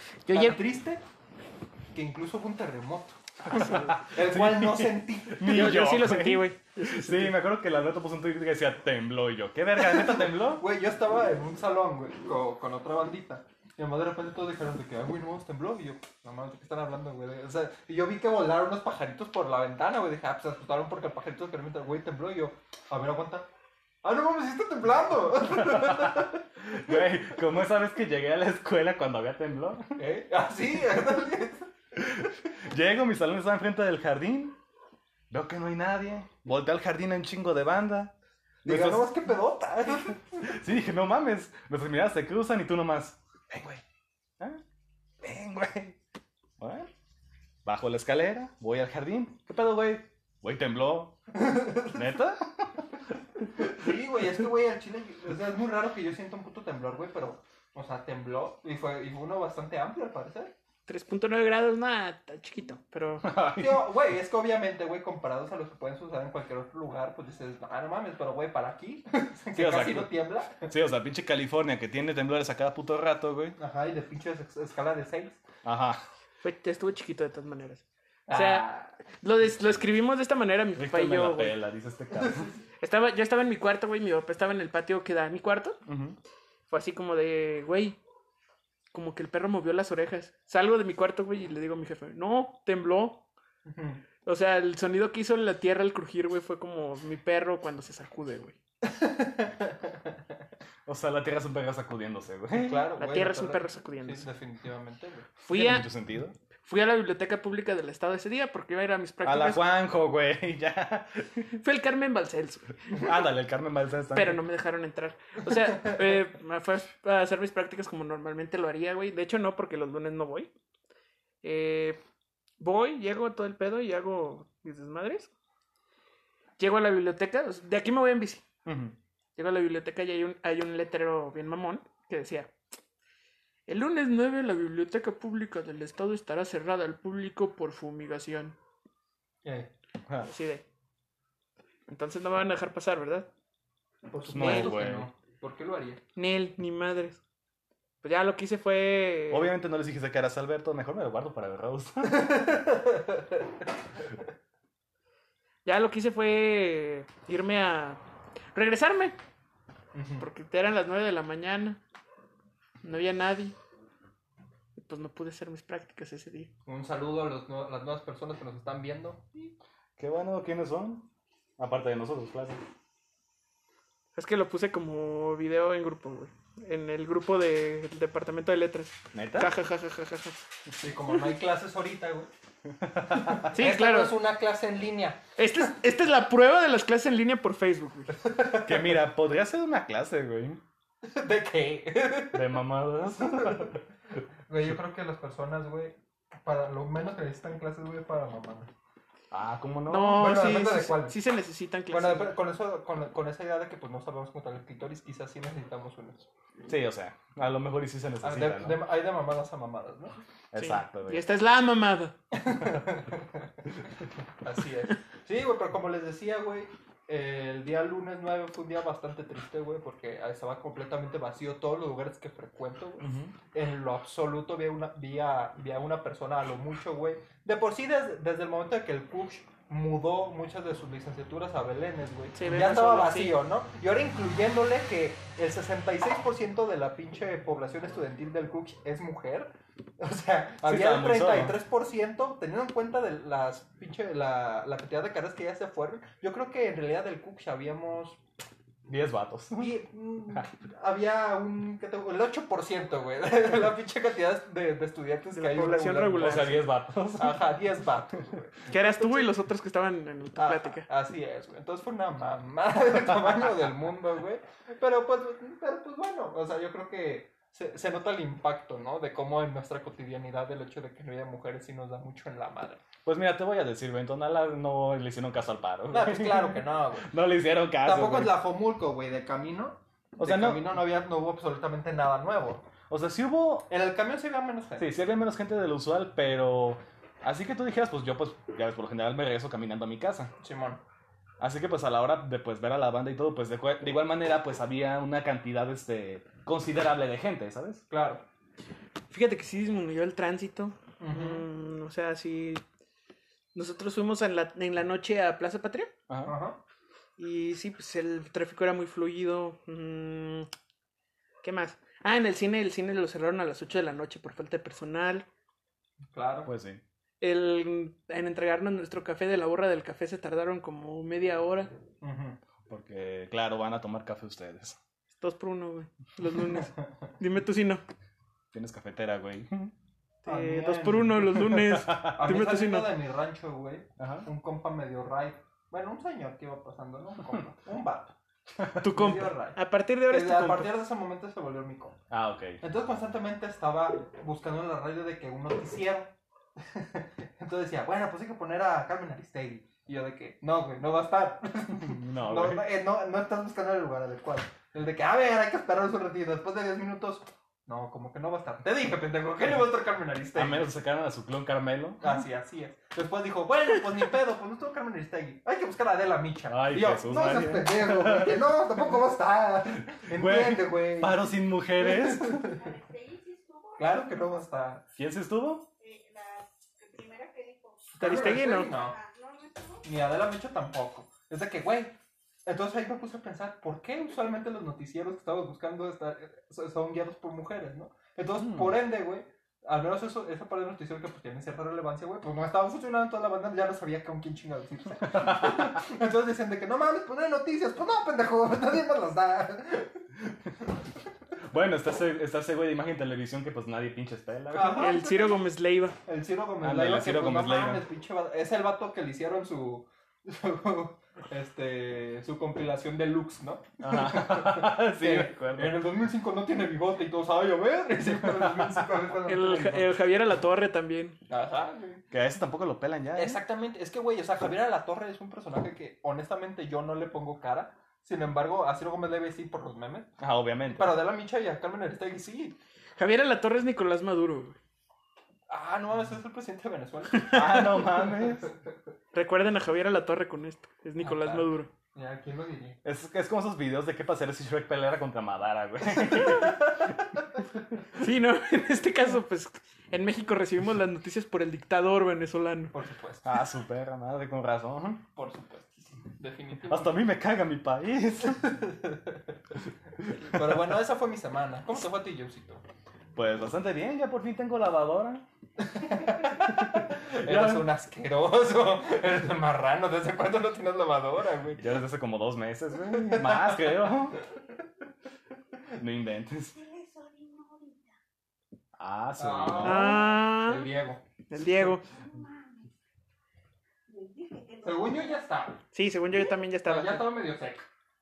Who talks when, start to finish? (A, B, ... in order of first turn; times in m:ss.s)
0:00.2-0:00.6 A
0:00.3-0:01.0 B
0:01.9-0:05.5 B
0:03.5-0:03.9 A
0:03.7-0:10.6 C
0:05.4-0:07.3 A
0:09.8-0:23.5 B
0:24.0-0:26.9 B
0:25.6-0:30.0 C
0:30.0-0:31.7 B
0:32.0-0:34.6 C
0:35.3-0:38.1 C
0:38.6-0:40.4 B
0:38.6-0:39.1 C
0:40.4-0:43.7 C
0:45.2-0:46.0 C
0:46.6-0:46.9 C
0:47.6-0:51.2 C
0:51.4-0:51.9 B
0:51.8-0:52.8 C
0:53.6-1:00.5 B
1:00.9-1:03.3 A
1:03.2-1:03.9 C
1:03.6-1:10.7 B
1:09.5-1:10.1 C
1:10.7-1:13.6 C
1:13.6-1:15.4 B
1:15.6-1:16.0 C
1:16.4-1:21.6 A
1:18.3-1:18.9 B
1:20.8-1:22.5 C
1:22.8-1:25.8 A
1:25.8-1:26.2 C
1:26.7-1:28.0 A
1:28.9-1:33.2 A
1:33.6-1:34.0 B
1:34.2-1:38.6 A
1:39.0-1:39.7 B
1:40.8-1:42.9 C
1:42.5-1:45.3 B
1:43.0-1:44.2 A
1:45.4-1:45.9 A
1:45.5-1:46.3 C
1:46.6-1:49.6 A
1:49.2-1:51.4 C
1:51.6-1:53.0 A
1:52.9-1:54.4 C
1:54.1-2:00.5 A
2:01.4-2:02.0 A
2:02.6-2:05.3 A
2:06.6-2:08.4 A
2:08.6-2:08.9 C
2:09.4-2:12.5 A
2:13.7-2:18.5 A
2:19.4-2:19.7 B
2:20.2-2:20.6 A
2:21.9-2:23.3 A
2:24.1-2:26.0 B
2:24.2-2:24.8 A
2:24.2-2:25.1 C
2:26.1-2:27.2 A
2:28.0-2:29.5 A
2:29.3-2:32.2 C
2:35.6-2:38.0 A
2:38.5-2:39.2 A
2:39.9-2:40.2 B
2:40.2-2:41.8 A
2:42.8-2:43.5 A
2:44.8-2:46.5 A
2:46.6-2:49.5 B
2:50.0-2:52.6 C
2:54.2-3:00.4 A
2:59.1-2:59.5 C
3:00.8-3:02.3 B
3:02.8-3:03.6 C
3:03.2-3:05.2 B
3:03.5-3:04.1 A
3:05.4-3:08.2 A
3:08.1-3:09.0 B
3:08.6-3:10.6 C
3:11.0-3:12.4 B
3:12.3-3:13.8 C
3:14.5-3:18.7 B
3:19.3-3:20.5 C
3:19.9-3:22.4 A
3:20.1-3:21.2 B
3:21.9-3:26.3 B
3:26.7-3:28.8 C
3:28.2-3:30.2 B
3:30.5-3:31.3 C
3:30.6-3:32.1 A
3:32.3-3:33.4 B
3:34.4-4:08.2 B
3:43.0-3:43.3 C
3:52.3-3:53.4 A
4:00.6-4:01.6 C
4:08.9-4:09.7 C
4:09.6-4:19.3 B
4:15.3-4:16.5 A
4:16.2-4:17.4 C
4:18.7-4:20.8 A
4:20.4-4:32.8 B
4:33.0-4:38.4 C
4:35.9-4:37.1 B
4:37.8-4:42.7 B
4:40.2-4:40.7 C
4:42.9-4:43.7 C
4:43.7-4:44.9 B
4:44.8-4:50.3 C
4:50.4-4:50.8 B
4:51.4-4:57.8 C
4:57.9-4:58.2 B
4:59.1-5:02.6 A
5:01.0-5:01.4 B
5:03.5-5:05.9 A
5:06.1-5:06.3 C
5:06.2-5:06.6 B
5:07.2-5:10.5 A
5:11.4-5:15.2 A
5:16.1-5:16.5 B
5:16.4-5:16.8 C
5:17.2-5:21.7 A
5:22.0-5:22.4 B
5:22.7-5:24.8 C
5:25.2-5:27.8 A
5:28.5-5:29.7 C
5:30.2-5:32.9 A
5:30.2-5:38.1 B
5:31.5-5:32.1 C
5:34.0-5:34.3 C
5:38.6-5:38.8 C
5:38.8-5:42.0 B
5:38.8-5:40.7 A
5:42.1-5:42.6 C
5:42.6-6:00.7 B
5:51.8-5:52.6 C
6:00.3-6:02.2 C
6:02.0-6:12.5 B
6:06.5-6:08.6 C
6:10.1-6:12.5 C
6:12.4-6:14.1 D
6:13.8-6:14.8 B
6:15.0-6:15.7 C
6:15.8-6:19.8 D
6:18.0-6:18.7 A
6:18.0-6:19.0 B
6:19.8-6:40.0 B
6:28.4-6:28.7 C
6:35.2-6:35.6 C
6:41.5-6:44.9 C
6:44.5-6:45.4 B
6:44.8-6:46.0 A
6:46.0-7:00.0 B
6:46.6-6:47.8 C
6:53.8-6:55.8 C
6:59.3-7:01.2 A
7:01.3-7:02.0 B
7:02.1-7:03.4 C
7:03.1-7:10.1 B
7:10.2-7:11.0 C
7:10.7-7:12.5 B
7:13.0-7:14.6 A
7:15.5-7:18.5 B
7:17.2-7:18.5 C
7:19.1-7:21.7 A
7:21.0-7:22.8 B
7:22.8-7:26.7 C
7:28.0-7:32.7 A
7:32.7-7:33.3 B
7:33.2-7:35.0 C
7:35.2-7:37.0 B
7:36.7-7:38.6 C
7:38.7-7:39.1 B
7:40.0-7:40.4 C
7:40.2-7:42.6 B
7:43.2-7:45.2 C
7:45.6-7:51.6 B
7:46.5-7:47.7 C
7:51.6-7:54.2 C
7:53.0-7:53.6 B
7:55.8-7:56.6 C
7:56.5-7:58.0 D
7:58.8-8:00.0 C
7:59.2-8:01.0 B
7:59.6-8:00.7 A
8:01.3-8:01.8 A
8:01.8-8:02.7 D
8:03.9-8:05.2 D
8:04.6-8:05.6 B
8:05.7-8:07.1 A
8:06.6-8:07.6 B